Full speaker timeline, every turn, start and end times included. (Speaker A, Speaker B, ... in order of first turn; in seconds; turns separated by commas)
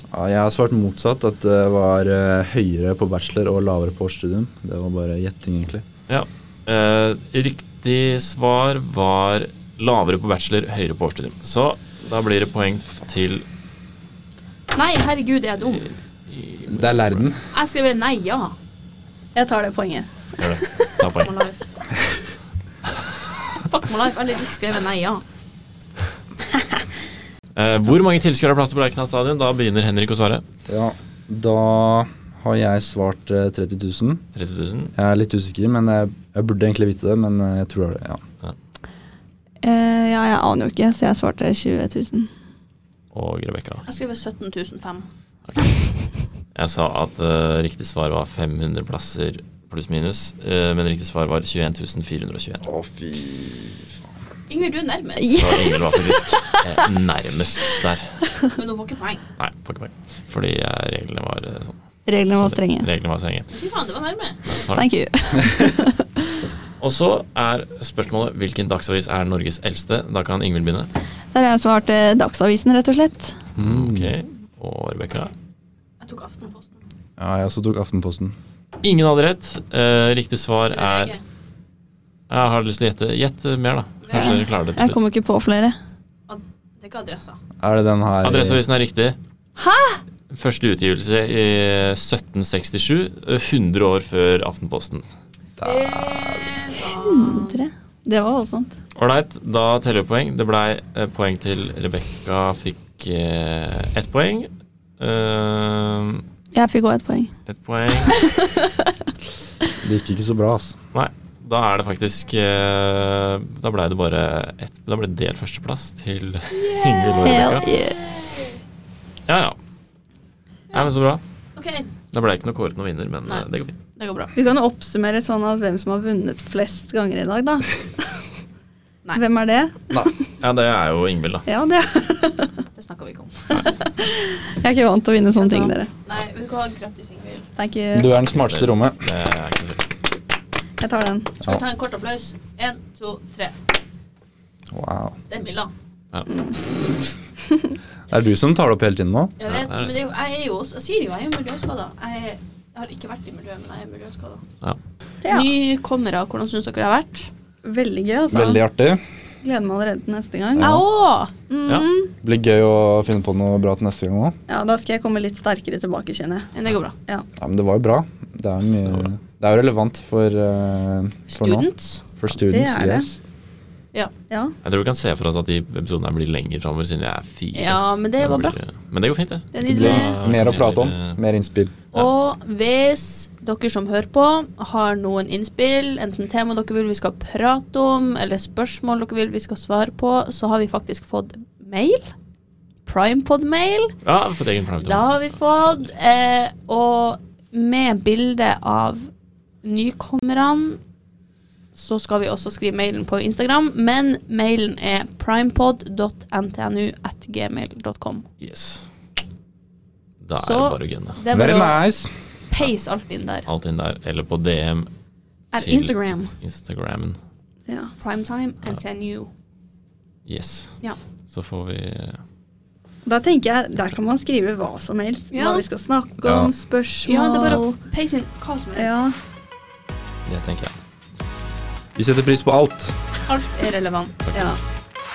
Speaker A: 0.1-5.8, Speaker B: 6.1-13.4, Speaker C: 14.7-15.9, Speaker B: 15.7-17.2, Speaker A: 16.7-17.4, Speaker C: 17.5-18.5, Speaker D: 19.4-21.1, Speaker B: 20.4-21.3, Speaker C: 21.2-21.7, Speaker C: 23.6-25.2, Speaker B: 27.6-30.4, Speaker A: 30.7-34.2, Speaker B: 34.4-34.9, Speaker A: 34.9-38.2, Speaker D: 39.6-42.3, Speaker B: 43.1-43.9, Speaker C: 43.9-45.1, Speaker B: 45.5-45.8, Speaker B: 46.5-52.6, Speaker A: 52.6-54.0, Speaker C: 54.5-55.5, Speaker D: 55.2-56.8, Speaker B: 55.3-58.2, Speaker C: 58.5-59.2, Speaker B: 59.4-61.8, Speaker D: 62.1-62.9, Speaker B: 62.3-63.5, Speaker C: 63.5-64.5, Speaker B: 64.5-64.9, Speaker D: 64.7-66.2, Speaker B: 66.8-70.9, Speaker D: 71.3-73.4, Speaker B: 73.6-75.3, Speaker A: 73.6-74.1, Speaker C: 76.0-76.8, Speaker A: 77.2-78.3, Speaker B: 78.8-81.1, Speaker C: 80.7-81.2, Speaker B: 82.3-85.0, Speaker C: 84.0-84.4, Speaker D: 84.1-85.8, Speaker C: 86.3-87.4, Speaker A: 87.6-88.6, Speaker B: 88.2-89.2, Speaker D: 89.6-90.0, Speaker B: 90.3-95.1, Speaker A: 95.6-96.5, Speaker C: 95.6-97.6, Speaker D: 96.9-98.8, Speaker B: 99.0-106.2, Speaker D: 106.5-107.3, Speaker B: 107.5-108.2, Speaker D: 108.1-108.8, Speaker A: 109.8-110.7, Speaker B: 110.9-117.7, Speaker C: 116.5-118.6, Speaker D: 117.2-118.0, Speaker B: 119.3-119.6, Speaker B: 120.7-121.2, Speaker C: 121.6-121.9, Speaker B: 122.1-123.8, Speaker C: 123.3-124.3, Speaker D: 124.3-127.8, Speaker D: 129.1-130.1, Speaker B: 130.4-131.5, Speaker D: 131.5-132.6, Speaker C: 132.7-133.7, Speaker D: 133.5-135.9, Speaker C: 135.4-137.5, Speaker D: 137.6-138.1, Speaker A: 137.9-139.0, Speaker B: 138.2-139.9, Speaker D: 140.8-141.4, Speaker C: 141.4-143.6, Speaker A: 144.7-145.1, Speaker C: 145.3-145.7, Speaker A: 148.1-149.3, Speaker C: 149.4-154.4, Speaker B: 149.4-149.9, Speaker C: 155.2-157.3, Speaker D: 157.6-158.6, Speaker A: 158.3-159.0, Speaker D: 159.4-160.8, Speaker A: 160.6-160.8, Speaker C: 160.6-161.3, Speaker D: 161.5-162.1, Speaker A: 162.2-164.4, Speaker D: 164.5-166.5, Speaker C: 166.5-166.9, Speaker A: 167.4-171.7, Speaker B: 168.7-169.1, Speaker C: 171.3-172.0, Speaker A: 172.2-173.2, Speaker D: 172.5-173.1, Speaker B: 174.6-181.2, Speaker C: 177.6-178.6, Speaker C: 179.5-180.2, Speaker A: 179.6-181.7, Speaker C: 181.9-192.1, Speaker C: 192.9-193.9, Speaker B: 194.0-195.1, Speaker C: 194.8-199.1, Speaker C: 199.6-200.8, Speaker C: 201.7-208.2, Speaker B: 208.4-208.9, Speaker B: 210.2-211.2, Speaker C: 210.4-211.8, Speaker A: 211.3-212.1, Speaker C: 212.5-213.5, Speaker B: 213.5-214.9, Speaker C: 215.5-216.3, Speaker B: 215.6-217.2, Speaker D: 217.7-217.9, Speaker C: 218.0-219.3, Speaker B: 220.3-220.8, Speaker B: 221.3-222.2, Speaker D: 223.1-227.7, Speaker C: 225.3-225.6, Speaker A: 226.2-226.5, Speaker C: 227.1-228.9, Speaker D: 228.8-229.1, Speaker B: 230.3-230.8, Speaker A: 231.9-232.9, Speaker C: 233.3-234.5